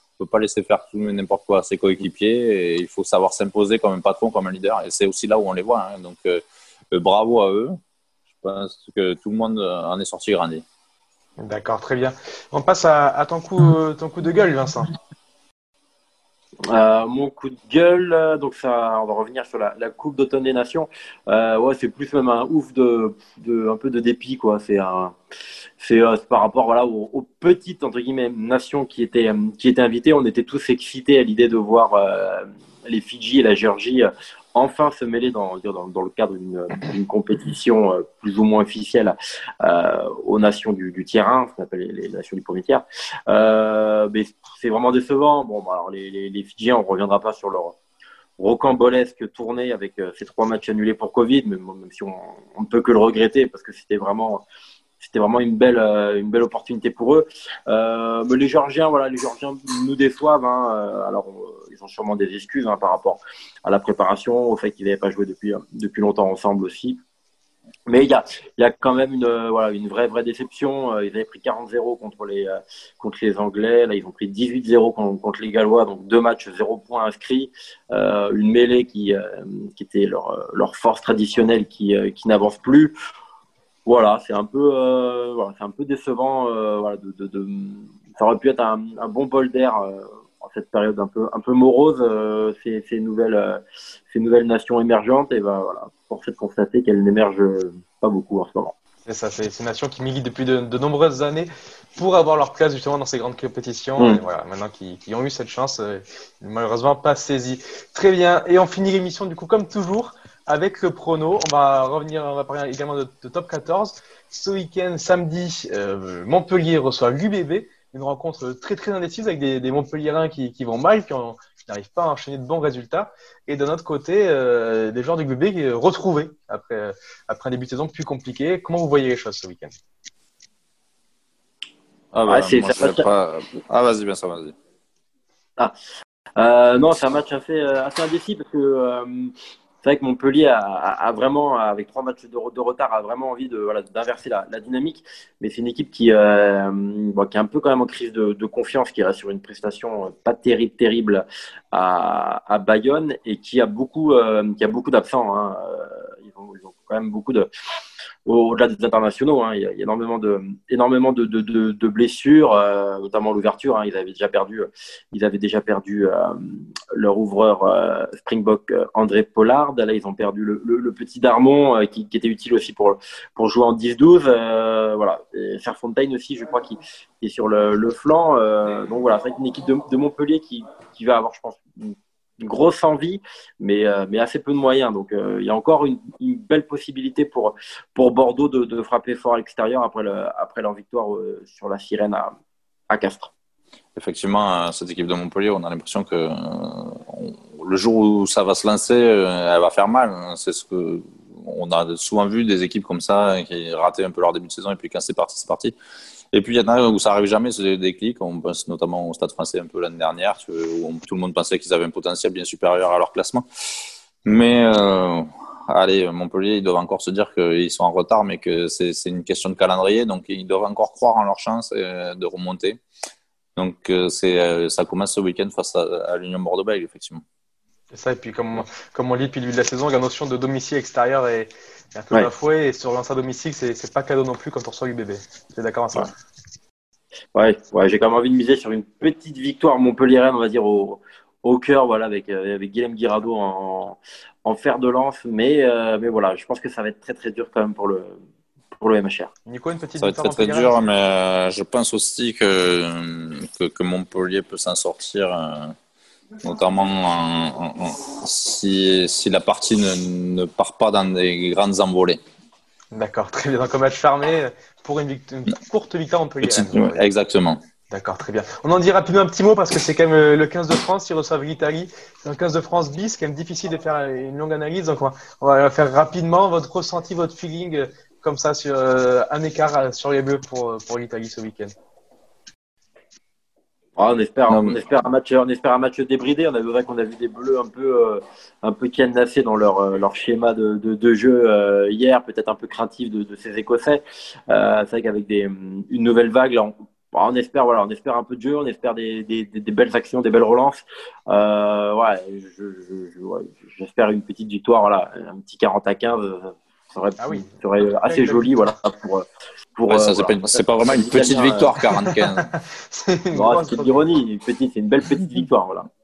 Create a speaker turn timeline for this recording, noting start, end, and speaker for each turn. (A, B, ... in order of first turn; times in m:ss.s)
0:00.2-0:07.7 A
0:08.4-0:10.6 A
0:11.4-0:14.9 B
0:16.7-0:25.1 C
0:25.8-0:47.8 C
0:48.4-0:54.4 C
0:55.0-1:07.0 C
1:07.9-1:22.9 C
1:23.9-1:33.6 C
1:34.1-1:38.7 C
1:39.0-2:09.8 B
2:12.1-2:14.5 A
2:12.3-2:13.1 C
2:16.4-2:19.3 C
2:19.8-2:37.5 C
2:38.3-3:12.3 C
3:12.9-3:13.3 C
3:14.0-3:25.8 A
3:26.3-3:33.4 A
3:34.3-3:42.8 A
3:43.6-3:47.2 A
3:47.9-3:56.1 B
3:57.4-4:08.2 C
4:08.8-4:09.3 C
4:09.5-4:10.8 B
4:10.0-4:15.7 A
4:16.4-4:22.2 A
4:22.9-4:27.1 B
4:26.4-4:27.6 A
4:27.9-4:41.7 B
4:44.0-5:09.2 C
4:44.5-4:44.8 A
5:07.2-5:08.7 B
5:09.8-5:11.7 C
5:09.9-5:12.5 A
5:12.0-5:12.3 B
5:12.9-5:14.1 B
5:13.3-5:15.9 C